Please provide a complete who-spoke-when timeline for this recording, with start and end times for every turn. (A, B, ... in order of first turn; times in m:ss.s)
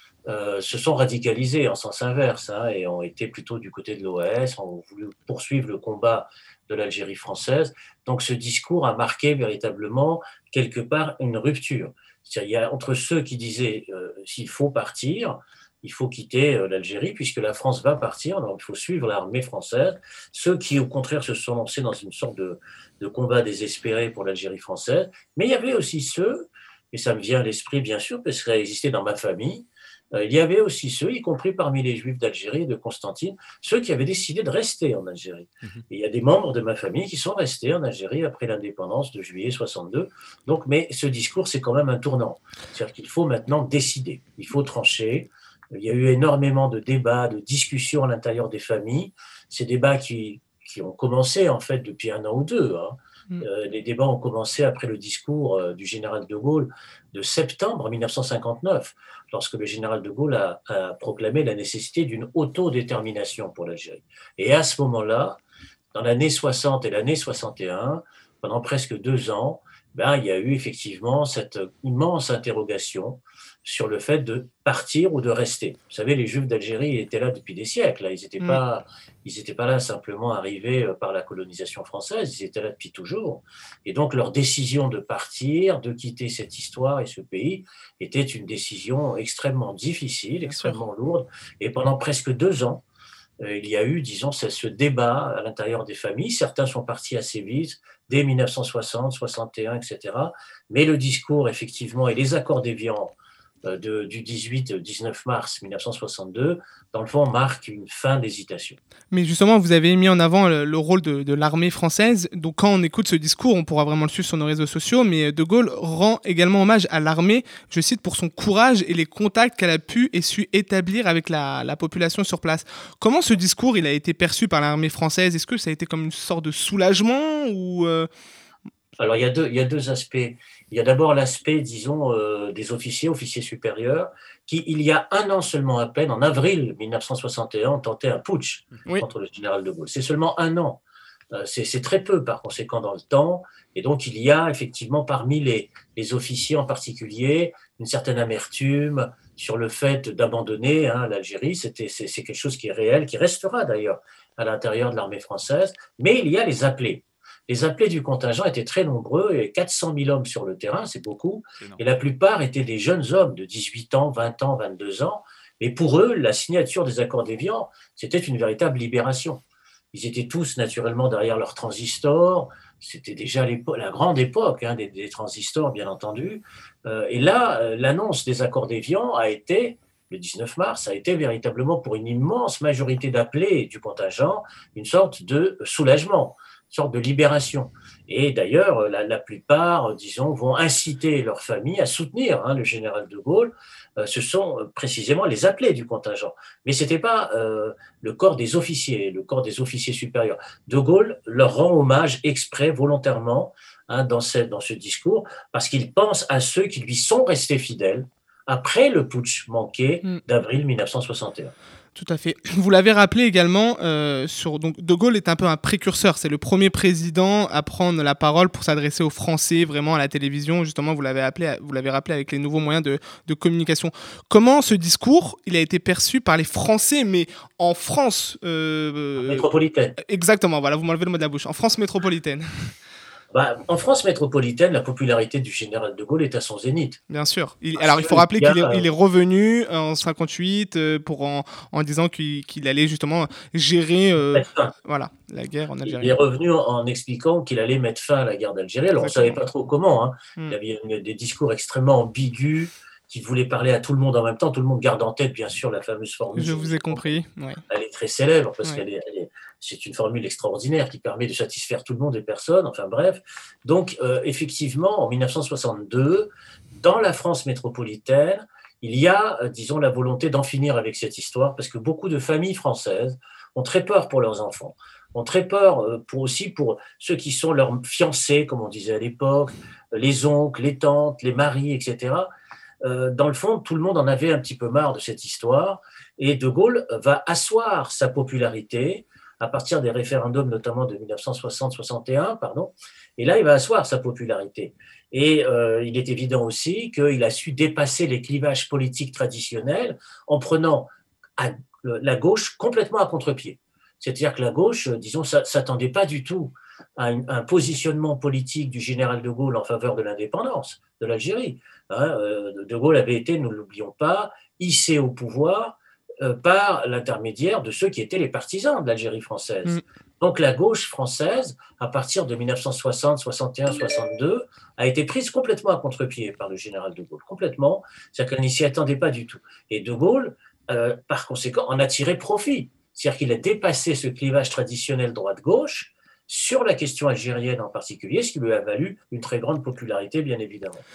0:00.3-1:05.4 A
1:05.9-1:32.8 A
1:30.4-1:30.8 B
1:33.4-1:48.8 A
1:49.1-2:08.1 B
2:09.0-2:20.8 A
2:21.3-3:31.5 A
3:32.0-3:49.5 B
3:49.2-3:50.0 A
3:50.0-3:52.7 B
3:53.3-3:57.0 A
3:57.1-4:06.2 B
3:57.8-3:58.9 A
4:04.2-4:04.8 A
4:05.8-4:42.3 A
4:09.0-4:09.4 B
4:16.4-4:17.6 B
4:42.8-5:40.8 A